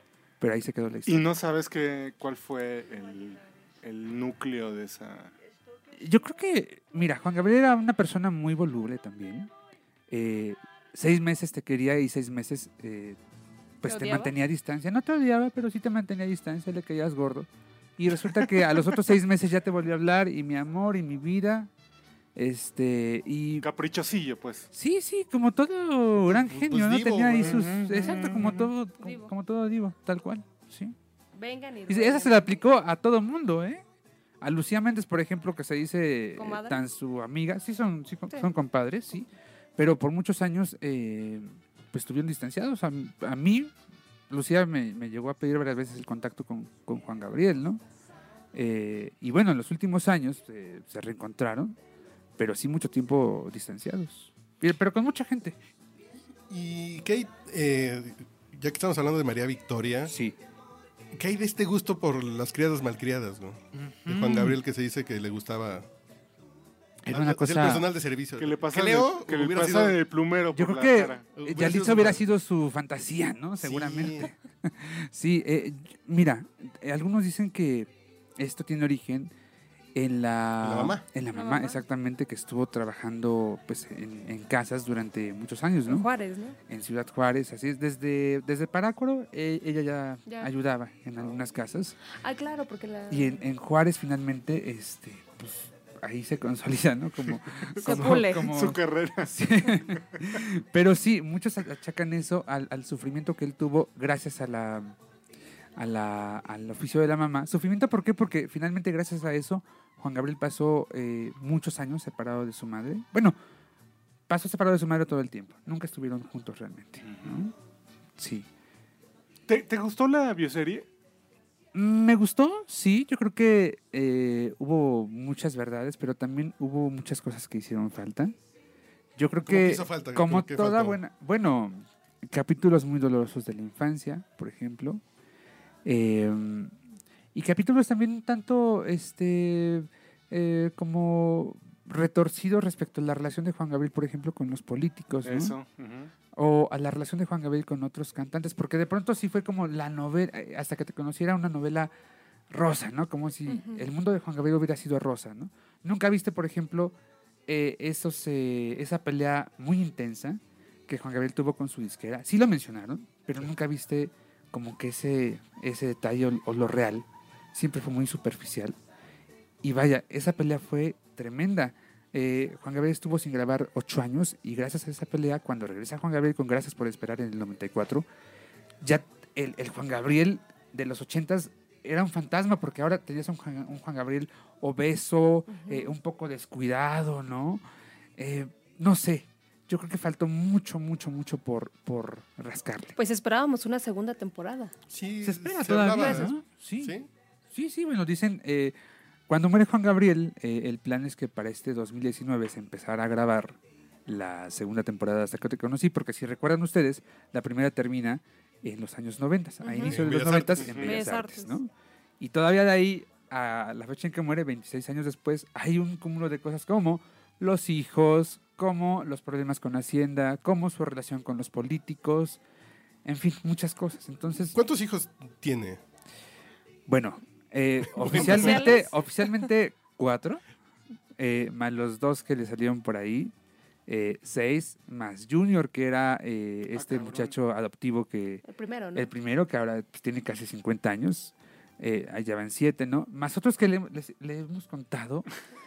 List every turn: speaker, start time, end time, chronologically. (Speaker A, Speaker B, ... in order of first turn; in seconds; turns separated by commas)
Speaker A: 0.4-1.2, Speaker B: 1.1-5.3, Speaker A: 6.0-9.5, Speaker A: 10.1-13.2, Speaker A: 13.8-21.7, Speaker C: 13.8-14.3, Speaker A: 22.3-23.7, Speaker B: 23.6-24.7, Speaker A: 24.7-30.9, Speaker D: 26.2-27.7, Speaker B: 27.4-28.7, Speaker C: 29.0-29.3, Speaker C: 31.4-32.6, Speaker A: 31.9-33.8, Speaker A: 34.4-43.7, Speaker C: 36.4-36.8, Speaker A: 44.3-47.8, Speaker A: 48.5-51.8, Speaker A: 52.4-55.6, Speaker D: 56.5-60.1, Speaker A: 60.1-60.4, Speaker D: 61.1-65.9, Speaker A: 63.7-64.6, Speaker A: 67.0-67.8, Speaker D: 67.1-70.0, Speaker B: 68.4-71.2, Speaker A: 70.5-79.3, Speaker D: 71.3-72.2, Speaker D: 73.6-74.3, Speaker A: 79.9-86.1, Speaker D: 80.6-81.0, Speaker C: 81.3-81.8, Speaker C: 85.9-86.6, Speaker A: 86.7-92.0, Speaker C: 92.1-93.4, Speaker A: 93.1-105.0, Speaker B: 97.8-99.3, Speaker C: 97.8-98.5, Speaker A: 105.8-113.4, Speaker A: 114.3-117.5, Speaker B: 117.0-117.4, Speaker A: 118.2-118.5, Speaker B: 119.5-120.8, Speaker A: 121.7-128.3, Speaker A: 129.2-135.0, Speaker D: 129.4-131.0, Speaker A: 135.8-136.7, Speaker A: 137.3-145.6, Speaker B: 145.2-146.1, Speaker A: 146.3-151.9, Speaker A: 152.5-156.9, Speaker C: 153.5-153.8, Speaker A: 157.5-168.8, Speaker A: 169.6-178.1, Speaker A: 178.8-187.6, Speaker C: 185.5-185.9, Speaker A: 188.2-192.9, Speaker C: 192.9-194.7, Speaker D: 194.9-197.1, Speaker A: 195.2-197.0, Speaker C: 195.9-196.3, Speaker A: 197.5-198.7, Speaker A: 199.3-222.4, Speaker C: 209.6-209.9, Speaker D: 209.8-210.8, Speaker B: 210.6-210.9, Speaker C: 210.8-211.6, Speaker A: 223.0-224.6, Speaker D: 224.5-225.8, Speaker A: 226.9-230.4, Speaker D: 228.0-228.8, Speaker C: 228.1-228.9, Speaker A: 231.2-233.3, Speaker A: 233.9-238.4, Speaker B: 236.7-237.3, Speaker C: 238.4-239.1, Speaker A: 238.9-245.3